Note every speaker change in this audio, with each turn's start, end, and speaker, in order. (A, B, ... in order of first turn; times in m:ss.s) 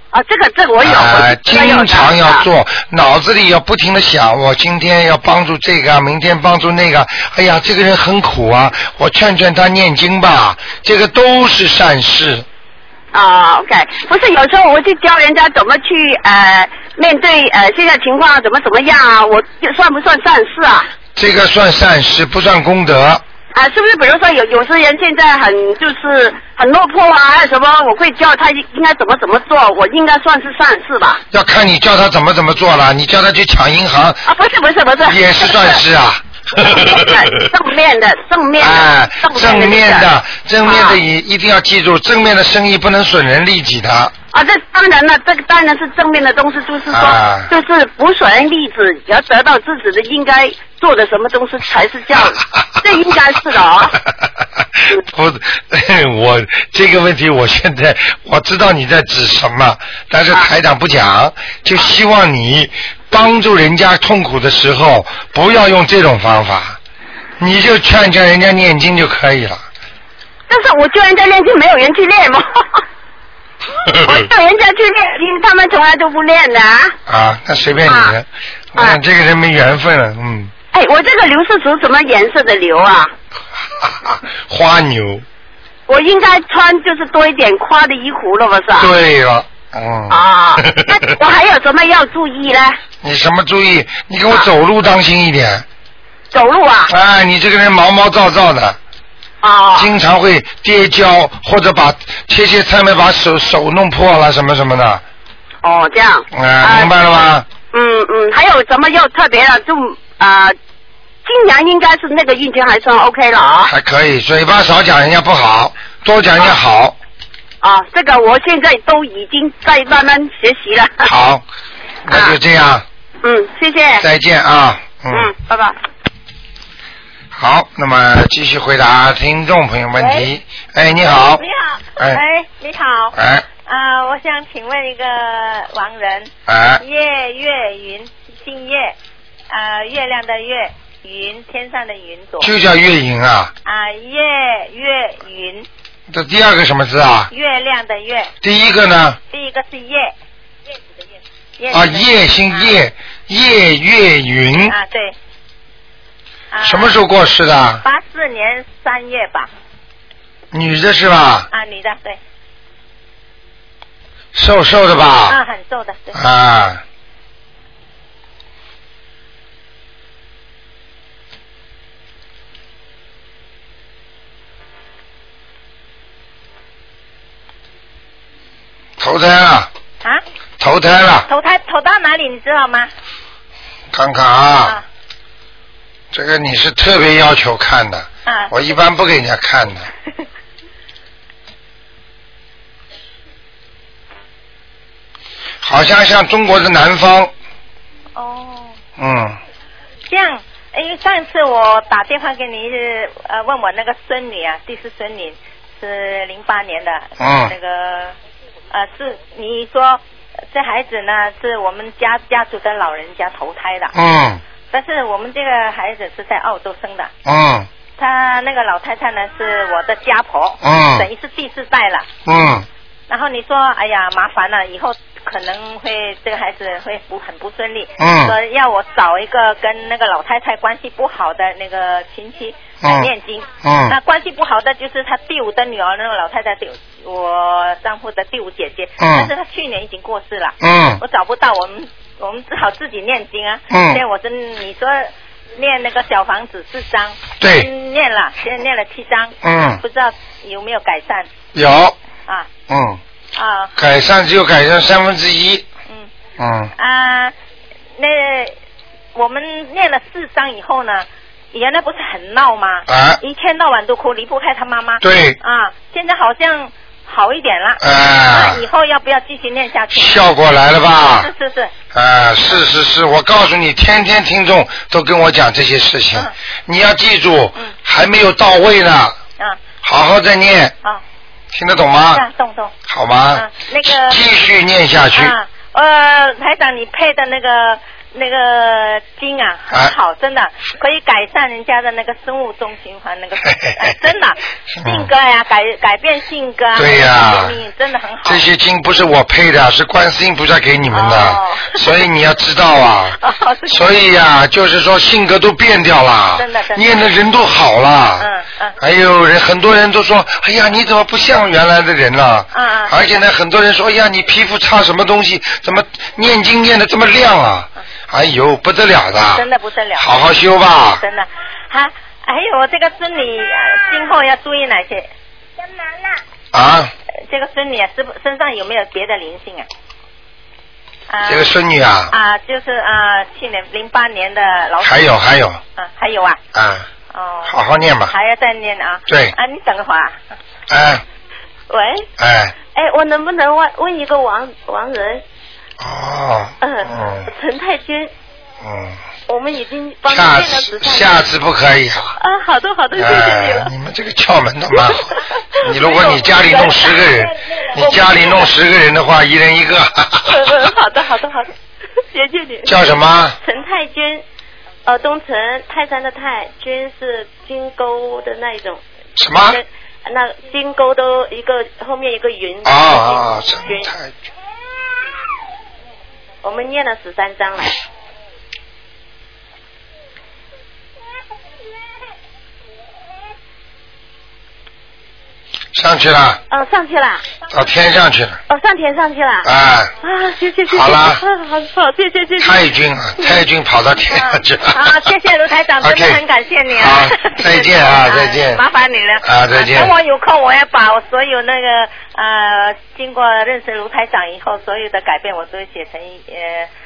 0:00.1-0:02.4 A
0:00.8-0:12.5 B
0:13.1-0:20.9 A
0:21.2-0:23.2 B
0:23.6-0:31.2 A
0:31.3-0:34.2 B
0:34.3-0:35.8 A
0:35.0-0:37.3 B
0:36.6-0:40.1 A
0:38.6-0:44.1 B
0:40.6-0:41.0 A
0:44.3-0:54.0 A
0:46.9-0:47.5 B
0:54.8-1:06.8 B
1:07.4-1:09.6 B
1:10.5-1:12.8 A
1:13.9-1:14.3 B
1:14.0-1:17.0 A
1:17.1-1:20.5 B
1:17.9-1:18.1 A
1:20.7-1:23.1 A
1:23.8-1:25.2 B
1:25.9-1:28.9 A
1:28.8-1:31.0 B
1:30.1-1:32.8 A
1:33.0-1:35.7 B
1:36.3-1:36.9 A
1:36.9-1:38.8 B
1:39.4-1:39.9 A
1:39.8-1:45.0 B
1:45.6-1:47.1 A
1:46.3-1:47.5 B
1:47.7-1:50.6 A
1:51.2-1:53.7 A
1:53.6-1:57.0 B
1:57.6-2:01.1 A
2:01.0-2:01.4 B
2:02.0-2:02.8 B
2:02.1-2:02.4 A
2:03.2-2:04.1 A
2:04.0-2:05.3 B
2:05.1-2:05.8 A
2:07.3-2:11.4 B
2:10.0-2:10.3 C
2:11.2-2:19.0 C
2:13.1-2:13.5 B
2:16.5-2:16.8 B
2:19.5-2:22.5 C
2:22.4-2:23.5 B
2:23.6-2:25.7 C
2:26.1-2:27.3 B
2:27.3-2:28.3 C
2:28.4-2:29.2 B
2:29.3-2:30.2 C
2:31.6-2:32.8 C
2:31.7-2:34.8 B
2:34.5-2:35.2 C
2:36.5-2:37.0 C
2:36.6-2:37.8 B
2:37.8-2:39.5 C
2:40.5-2:41.5 B
2:41.5-2:42.2 C
2:44.3-2:45.4 B
2:45.3-2:46.2 C
2:46.1-2:46.8 B
2:59.0-2:59.7 B
3:00.6-3:01.3 B
3:01.3-3:02.9 C
3:03.9-3:04.8 B
3:06.1-3:09.9 B
3:08.3-3:08.5 C
3:15.6-3:17.3 B
3:18.2-3:18.8 C
3:19.0-3:19.4 B
3:20.1-3:28.2 C
3:27.2-3:27.5 B
3:28.7-3:33.9 C
3:33.9-3:34.4 B
3:34.7-3:37.1 C
3:37.2-3:37.7 B
3:38.0-3:42.1 C
3:40.6-3:41.1 B
3:42.2-3:42.7 B
3:43.1-4:11.3 C
3:48.0-3:48.4 B
3:52.8-3:53.1 B
3:53.6-3:54.0 B
3:59.0-3:59.3 B
4:00.6-4:01.0 B
4:03.7-4:04.0 B
4:07.4-4:07.7 B
4:09.4-4:09.8 B
4:11.5-4:12.0 B
4:12.7-4:13.0 B
4:13.3-4:13.7 C
4:13.8-4:15.6 B
4:16.4-4:16.7 B
4:16.8-4:17.3 C
4:18.0-4:18.6 C
4:19.2-4:30.2 C
4:22.9-4:23.2 B
4:25.0-4:25.4 B
4:27.8-4:28.6 B
4:29.9-4:31.3 B
4:31.1-4:31.7 C
4:31.9-4:39.2 B
4:39.8-4:40.7 B
4:41.5-4:42.2 B
4:42.1-4:42.7 C
4:42.9-4:45.4 B
4:43.3-4:44.2 C
4:45.1-4:58.4 C
4:53.4-4:54.0 B
4:54.7-4:55.1 B
4:56.8-4:57.6 B
4:58.2-5:19.4 B
5:00.9-5:01.9 C
5:03.2-5:03.9 C
5:06.4-5:07.0 C
5:08.2-5:08.8 C
5:12.5-5:13.2 C
5:19.3-5:20.2 C
5:20.0-5:21.0 B
5:21.0-5:25.1 C
5:26.5-5:26.9 B
5:27.3-5:29.7 C
5:31.1-5:31.5 C
5:31.3-5:32.1 B
5:32.1-5:35.2 C
5:34.8-5:35.6 B
5:35.8-5:36.4 C
5:36.5-5:36.9 B
5:37.1-5:37.6 C
5:37.4-5:38.1 B
5:38.1-5:40.2 C
5:39.1-5:39.4 B
5:40.7-5:41.0 B
5:41.7-5:42.1 D
5:42.2-5:42.5 B
5:42.7-5:45.2 D
5:45.8-5:47.3 B
5:46.6-5:48.1 D
5:48.6-5:49.0 B
5:49.3-5:51.2 D
5:50.1-5:52.2 B
5:52.2-5:53.7 D
5:52.9-6:00.4 B
5:54.8-5:55.0 D
5:55.6-5:58.5 D
6:00.2-6:01.5 D
6:02.1-6:04.2 D
6:02.6-6:03.4 B
6:04.9-6:08.8 D
6:09.2-6:09.6 B
6:09.3-6:14.0 D
6:12.6-6:14.1 B
6:16.4-6:17.8 D
6:25.7-6:26.4 B
6:26.5-6:27.3 D
6:27.5-6:28.4 B
6:28.5-6:29.5 D
6:29.4-6:29.9 B
6:30.0-6:33.4 D
6:30.7-6:31.2 B
6:32.4-6:35.0 B
6:34.1-6:46.7 C
6:35.8-6:36.2 B
6:36.7-6:38.6 B
6:39.2-6:39.9 B